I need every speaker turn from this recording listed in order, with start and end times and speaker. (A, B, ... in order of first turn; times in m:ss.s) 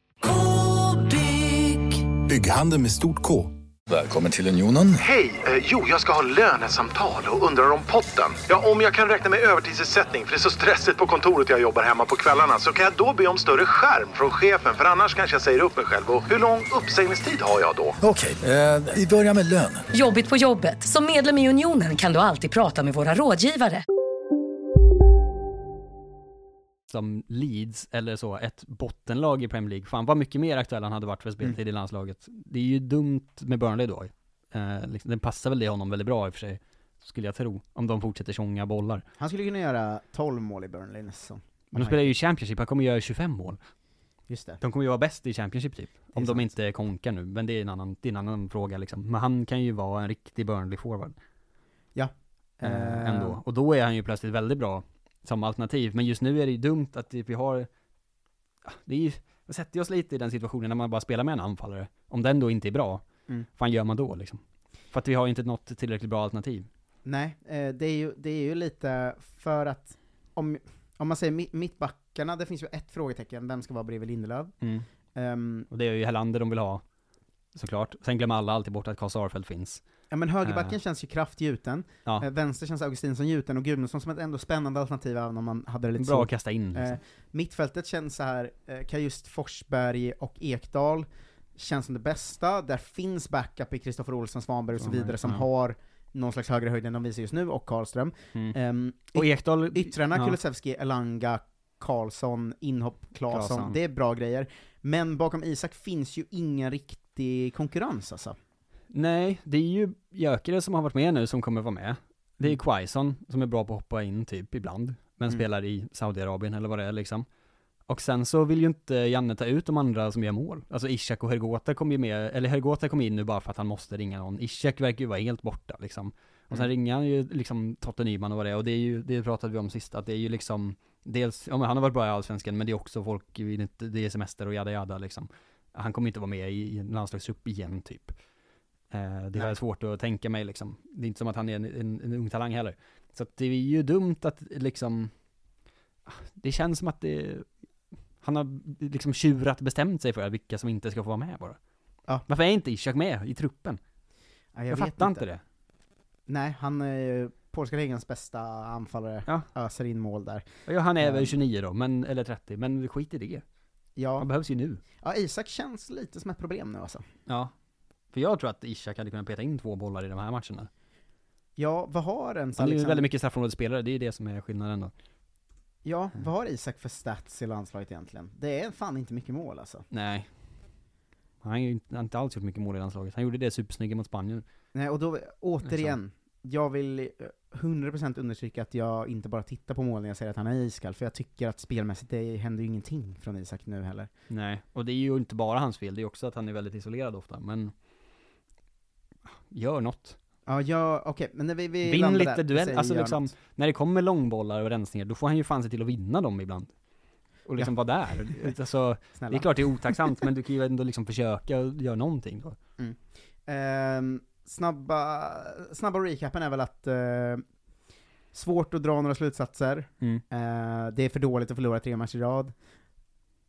0:02.2-0:05.0 A
0:05.0-0:18.0 B
0:18.0-0:19.8 A
0:19.9-0:23.8 C
0:26.9-0:39.0 D
0:39.2-0:42.1 E
0:41.7-0:43.6 D
0:44.3-0:44.6 E
0:44.6-0:51.2 D
0:46.2-0:46.5 E
0:52.0-0:53.4 E
0:52.6-0:57.7 D
0:58.7-1:03.0 D
1:03.6-1:04.4 D
1:04.9-1:06.7 D
1:07.0-1:14.6 E
1:15.2-1:15.7 E
1:15.7-1:16.8 D
1:17.6-1:19.8 D
1:20.1-1:48.4 E
1:20.4-1:20.8 D
1:26.0-1:27.0 D
1:34.8-1:35.5 D
1:39.1-1:40.4 D
1:43.3-1:43.8 D
1:48.9-1:57.3 D
1:57.9-2:18.2 D
2:18.9-2:25.1 D
2:26.1-2:27.5 D
2:28.2-2:31.6 D
2:32.3-2:33.8 D
2:34.5-2:35.2 E
2:34.7-2:35.4 D
2:36.3-2:40.5 E
2:40.7-2:43.4 D
2:41.0-2:41.4 E
2:44.0-2:44.3 E
2:44.2-2:44.8 D
2:45.0-2:47.0 E
2:47.3-2:47.5 D
2:48.1-2:50.7 D
2:51.6-2:53.1 E
2:52.6-2:54.9 D
2:55.8-2:59.9 E
2:59.9-3:00.3 D
3:01.4-3:04.4 D
3:04.7-3:14.1 E
3:05.6-3:06.0 D
3:14.3-3:17.7 D
3:19.4-3:20.2 D
3:20.5-3:23.3 E
3:21.8-3:26.7 D
3:27.4-3:32.6 D
3:27.6-3:28.5 E
3:29.2-3:30.3 E
3:32.8-3:37.4 E
3:38.3-3:42.5 E